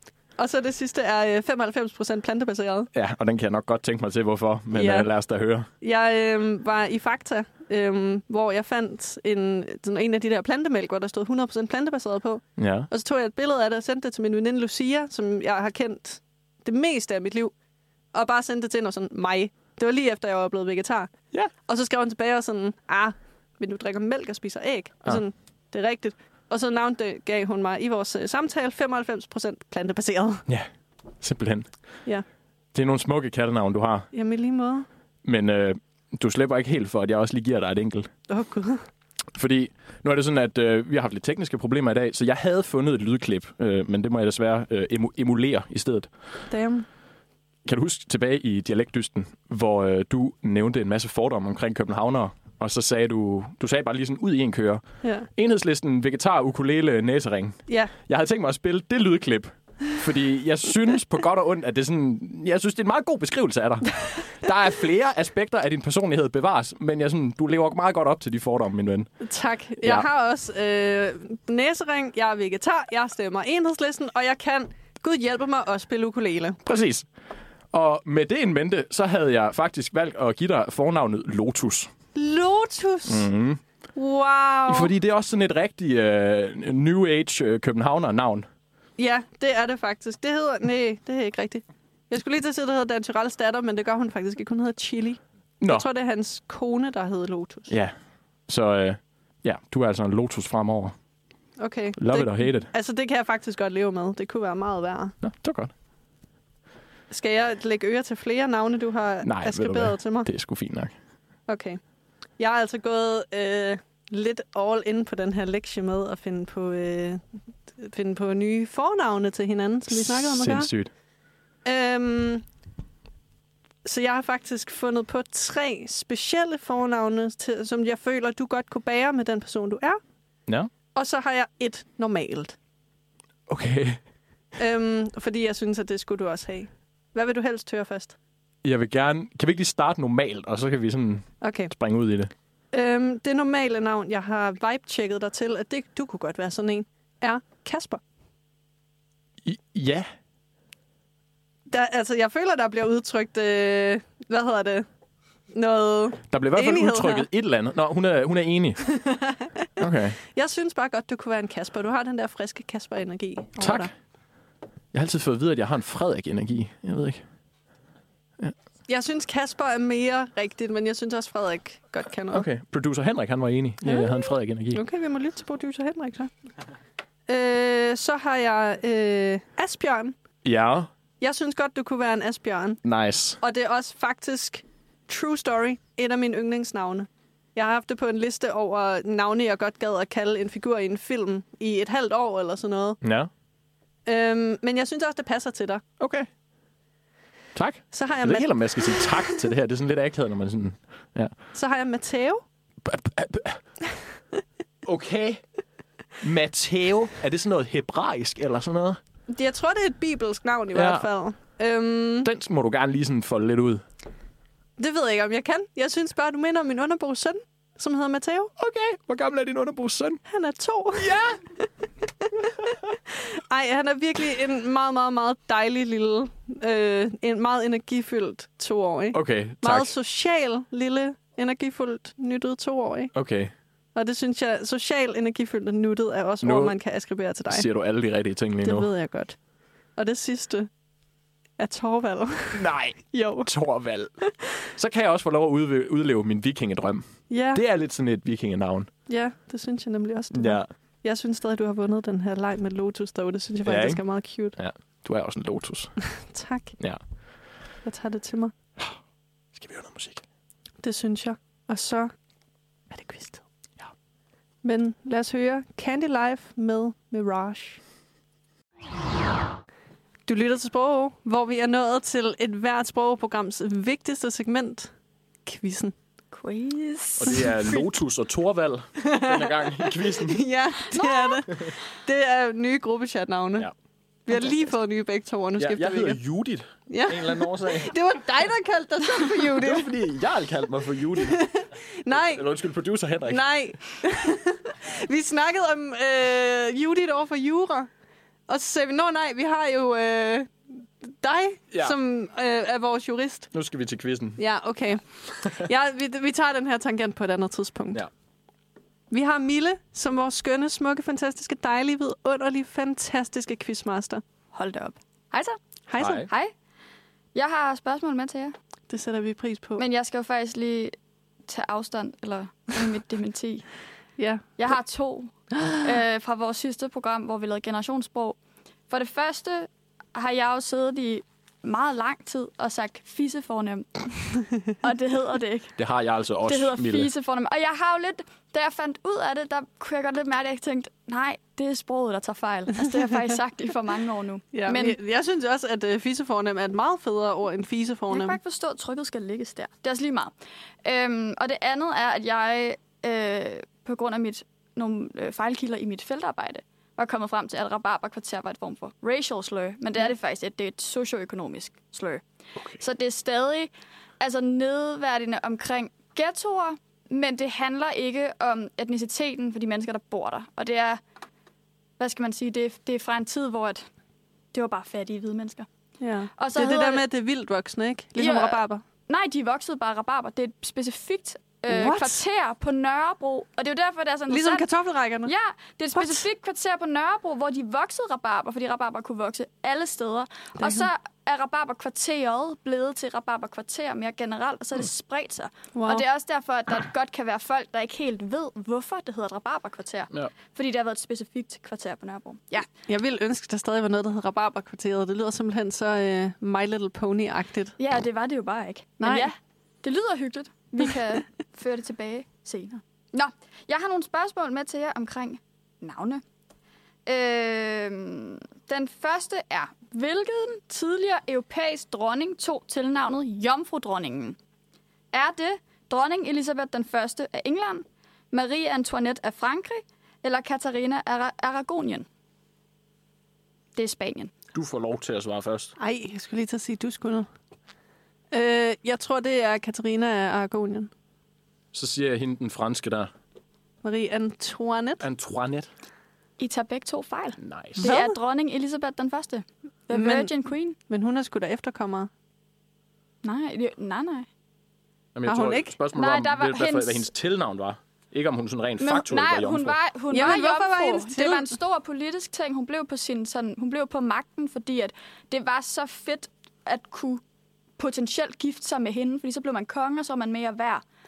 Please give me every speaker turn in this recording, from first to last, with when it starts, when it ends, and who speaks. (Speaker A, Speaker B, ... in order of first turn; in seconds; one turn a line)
Speaker A: 0.4-2.9
Speaker B: 2.9-5.7
Speaker A: 4.7-5.1
Speaker A: 5.8-17.5
Speaker B: 12.6-12.9
Speaker A: 18.1-21.1
Speaker A: 21.7-30.5
Speaker B: 31.2-31.7
Speaker B: 32.7-34.1
Speaker A: 34.1-34.9
Speaker B: 35.2-38.1
Speaker A: 38.3-38.8
Speaker B: 39.4-46.1
Speaker A: 46.5-46.9
Speaker B: 47.6-54.8
Speaker A: 55.0-55.3
Speaker B: 55.4-69.1
Speaker A: 57.7-57.9
Speaker A: 69.2-76.6
Speaker B: 76.6-77.1
Speaker B: 77.7-81.9
Speaker A: 82.2-83.3
Speaker B: 83.1-83.6
Speaker A: 84.0-84.9
Speaker B: 84.7-88.5
Speaker A: 89.0-97.7
Speaker B: 95.6-95.8
Speaker B: 98.5-101.0
Speaker A: 101.6-105.2
Speaker B: 102.0-102.7
Speaker B: 105.2-105.7
Speaker A: 107.1-110.3
Speaker B: 109.2-110.9
Speaker A: 111.5-111.8
Speaker A: 112.4-117.2
Speaker A: 117.8-120.7
Speaker B: 119.9-120.9
Speaker A: 121.7-122.4
Speaker A: 123.8-130.0
Speaker A: 130.9-132.6
Speaker B: 133.5-134.0
Speaker A: 134.6-138.2
Speaker B: 138.6-142.3
Speaker A: 141.4-141.7
Speaker A: 142.7-148.0
Speaker B: 149.4-150.1
Speaker A: 151.7-154.9
Speaker A: 155.5-157.3
Speaker B: 156.3-158.9
Speaker A: 158.9-159.6
Speaker B: 159.8-160.2
Speaker A: 160.2-163.9
Speaker B: 163.6-163.9
Speaker B: 164.9-167.2
Speaker A: 168.9-172.5
Speaker B: 172.3-174.8
Speaker A: 173.8-174.2
Speaker A: 174.7-176.3
Speaker A: 177.3-180.2
Speaker B: 180.4-180.9
Speaker A: 181.2-182.8
Speaker B: 182.8-183.4
Speaker A: 183.4-193.0
Speaker B: 193.0-193.3
Speaker A: 194.1-195.8
Speaker B: 196.0-196.3
Speaker B: 197.6-201.3
Speaker A: 197.9-199.4
Speaker A: 201.5-202.4
Speaker B: 202.8-203.6
Speaker B: 204.8-205.4
Speaker B: 206.2-209.0
Speaker A: 209.3-212.3
Speaker B: 210.7-211.1
Speaker B: 212.2-213.8
Speaker A: 214.8-218.5
Speaker B: 218.6-220.2
Speaker A: 220.3-221.1
Speaker B: 221.0-221.4
Speaker A: 223.3-233.1
Speaker B: 229.1-229.9
Speaker B: 233.1-233.5
Speaker A: 233.9-237.7
Speaker B: 236.4-236.8
Speaker B: 237.5-238.9
Speaker A: 238.6-239.4
Speaker A: 240.0-240.7
Speaker A: 241.6-243.5
Speaker B: 242.5-248.9
Speaker A: 247.3-247.6
Speaker A: 249.1-254.6
Speaker B: 250.3-250.7
Speaker B: 253.7-254.0
Speaker B: 254.6-255.9
Speaker A: 256.1-256.7
Speaker A: 257.8-258.5
Speaker B: 259.5-260.2
Speaker A: 260.8-262.1
Speaker A: 262.9-263.4
Speaker A: 264.6-267.8
Speaker A: 270.3-274.9
Speaker A: 275.4-275.9
Speaker C: 276.3-277.7
Speaker B: 277.2-280.4
Speaker A: 279.0-283.7
Speaker C: 280.9-281.6
Speaker A: 284.3-286.2
Speaker B: 285.6-287.9
Speaker A: 286.9-289.9
Speaker B: 289.4-291.5
Speaker A: 291.2-292.4
Speaker B: 292.1-293.4
Speaker A: 293.3-297.9
Speaker A: 298.5-303.5
Speaker B: 301.7-302.0
Speaker B: 303.5-304.4
Speaker A: 304.4-308.1
Speaker A: 309.1-314.2
Speaker C: 314.5-315.6
Speaker A: 315.9-316.3
Speaker B: 316.0-316.3
Speaker C: 316.2-316.5
Speaker C: 317.3-318.5
Speaker A: 318.9-319.8
Speaker C: 319.8-320.9
Speaker C: 321.5-323.7
Speaker A: 324.2-324.6
Speaker C: 324.6-328.4
Speaker C: 328.9-335.8
Speaker B: 335.8-337.1
Speaker C: 336.4-345.0
Speaker A: 344.5-348.4
Speaker C: 348.1-350.3
Speaker C: 350.9-362.2
Speaker C: 362.8-371.0
Speaker C: 372.0-373.9
Speaker C: 374.5-375.7
Speaker A: 376.0-378.8
Speaker C: 376.4-377.0
Speaker C: 378.2-384.7
Speaker A: 381.7-382.2
Speaker A: 384.3-385.3
Speaker C: 385.2-402.7
Speaker A: 385.9-386.3
Speaker A: 390.6-390.9
Speaker A: 395.7-396.1
Speaker A: 402.9-407.8
Speaker C: 407.8-416.2
Speaker A: 409.0-409.3
Speaker C: 417.1-424.4
Speaker C: 425.1-432.1
Speaker C: 433.8-434.3
Speaker B: 434.5-435.7
Speaker A: 435.8-437.3
Speaker A: 438.3-440.9
Speaker B: 441.7-443.1
Speaker A: 443.8-445.1
Speaker B: 445.0-445.7
Speaker C: 446.4-450.8
Speaker B: 447.4-447.9
Speaker A: 447.8-448.1
Speaker A: 449.9-450.3
Speaker A: 450.9-452.1
Speaker C: 453.2-454.3
Speaker B: 455.1-459.8
Speaker A: 455.3-455.8
Speaker C: 455.9-457.1
Speaker C: 458.8-467.2
Speaker A: 460.1-461.5
Speaker C: 467.8-470.8